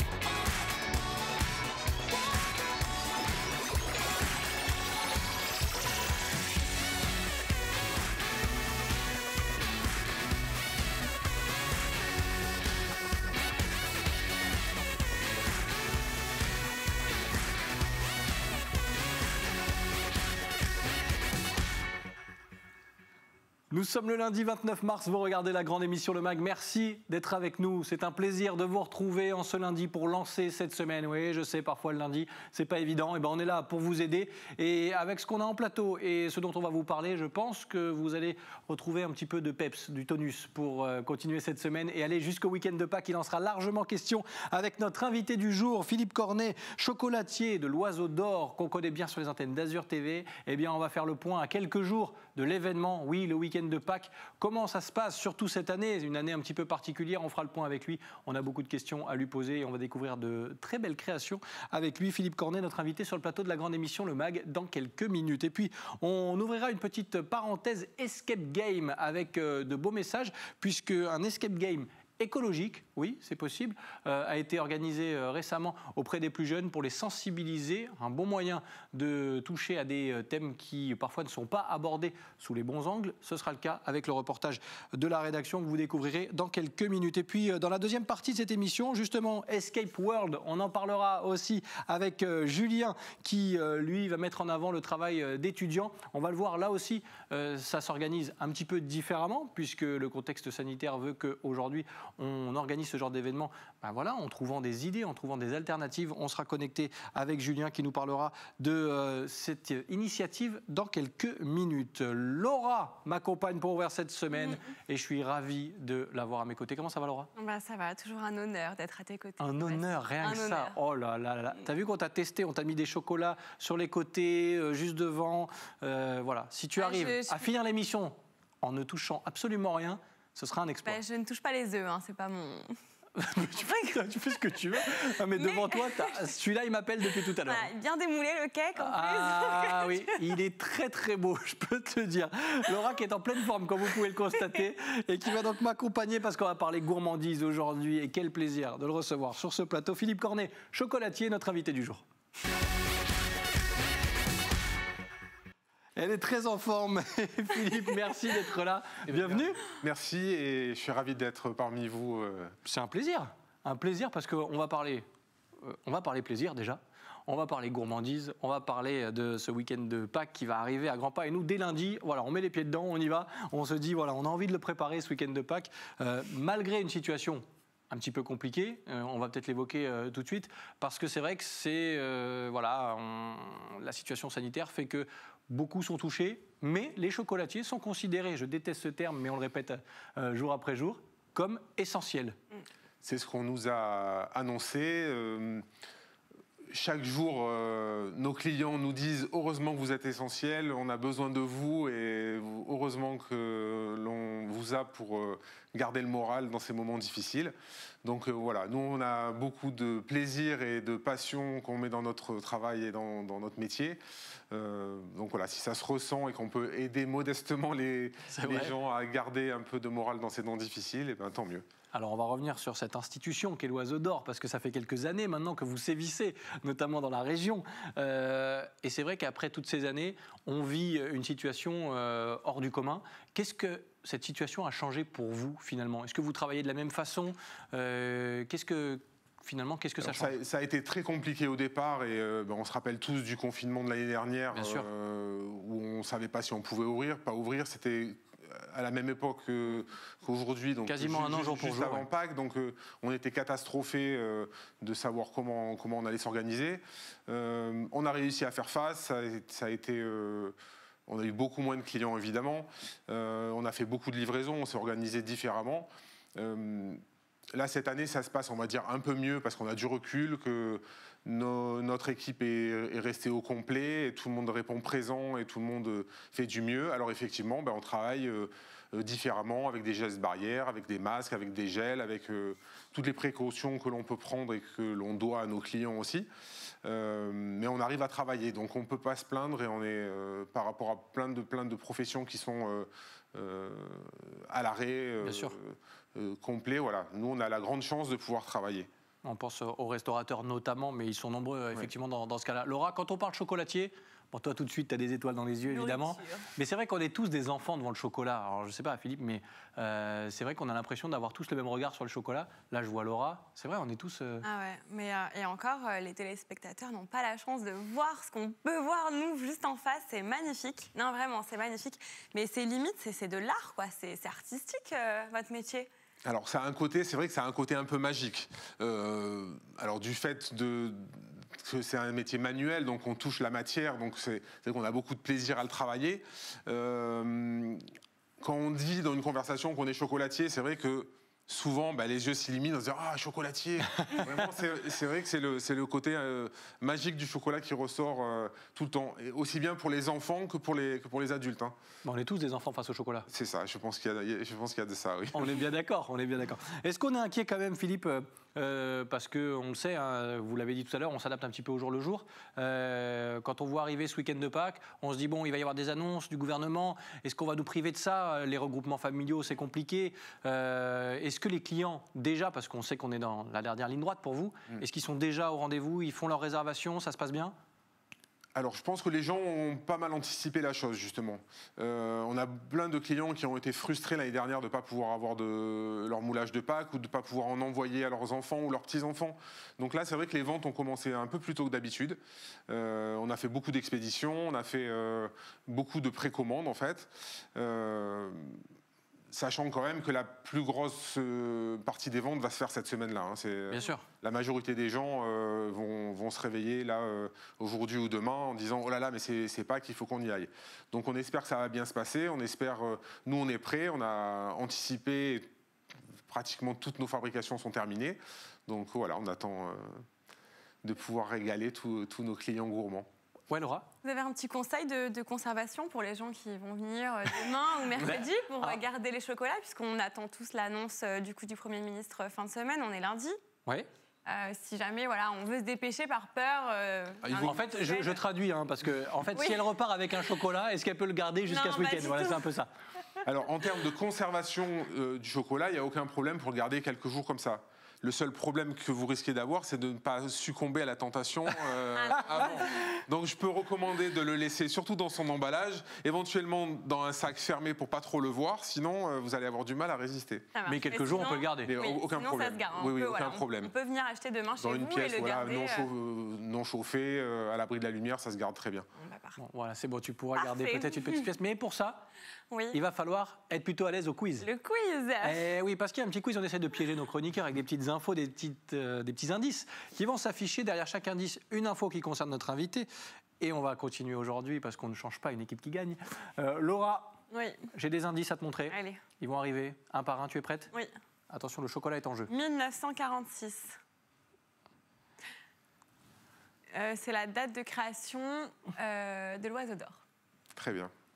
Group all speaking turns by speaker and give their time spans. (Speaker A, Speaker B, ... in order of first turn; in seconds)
Speaker A: 23.7-117.3, 119.4-131.0, 133.2-137.7, 138.8-152.0, 156.0-159.6, 162.7-165.1, 165.6-192.4, 218.3-218.7, 221.9-240.4, 244.5-244.9, 250.9-252.1, 295.2-295.6, 299.2-314.5, 344.0-344.4, 352.1-353.3, 355.3-377.5, 403.7-404.1, 423.5-423.9, 428.0-428.8, 437.4-442.7, 452.2-453.0, 460.7-461.7, 469.4-472.1, 472.7-474.5, 475.2-482.9, 483.4-487.2, 487.7-490.7, 491.3-492.3
Speaker B: 114.3-114.6, 117.4-120.8, 126.8-127.5, 130.8-132.8, 133.7-134.0, 135.3-136.3, 137.4-140.2, 305.7-306.5, 314.4-325.9, 424.0-433.4, 434.3-438.2, 441.5-442.5, 452.0-452.7, 460.5-465.9, 469.0-469.4, 470.4-471.3, 472.5-472.8, 474.4-475.4, 487.3-487.7, 488.7-489.0, 492.3-493.8, 496.7-500.0
Speaker C: 159.1-162.6, 193.0-195.7, 196.7-221.7, 240.0-260.6, 261.1-267.0, 267.5-286.3, 286.8-298.9, 326.2-337.8, 338.4-351.8, 353.3-355.6, 378.6-398.6, 399.3-415.5, 416.3-420.0, 420.8-423.1, 437.2-437.6, 443.2-460.5, 461.7-463.7, 464.6-468.9, 500.6-500.9